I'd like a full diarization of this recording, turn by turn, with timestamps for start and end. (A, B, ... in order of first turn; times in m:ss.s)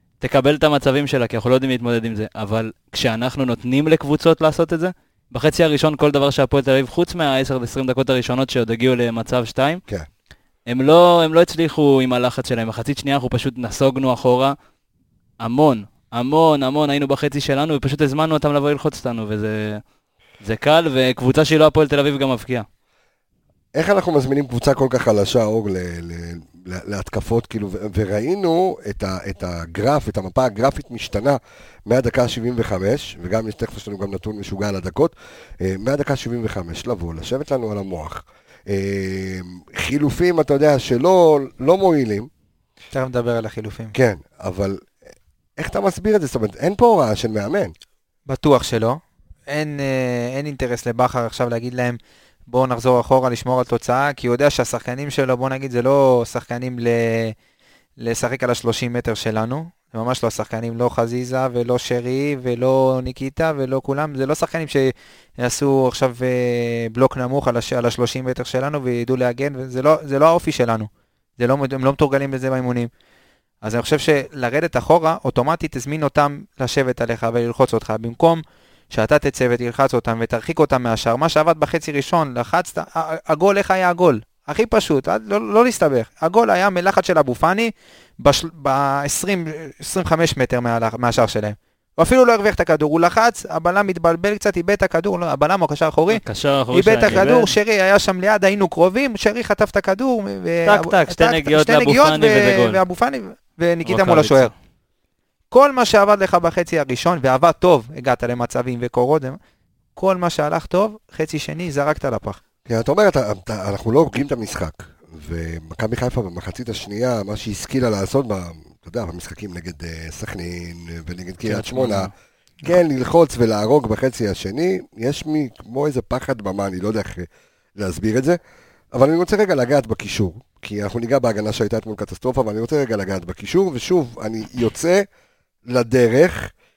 0:00.2-0:09.8 A
0:10.7-0:14.6 A
0:15.4-0:19.8 A
0:20.4-0:22.7 A
0:23.7-0:42.3 B
0:42.9-0:43.9 C
0:43.9-0:44.9 B
0:45.6-0:47.7 B
0:48.3-0:57.4 C
0:58.0-1:12.9 C
1:13.6-1:44.5 C
1:36.1-1:37.5 A
1:40.6-1:42.8 A
1:43.9-1:44.5 A
1:45.5-1:49.4 C
1:50.0-1:52.4 C
1:52.7-2:02.1 B
2:01.5-2:02.0 C
2:02.6-2:08.4 B
2:08.9-2:15.0 B
2:15.7-2:16.5 B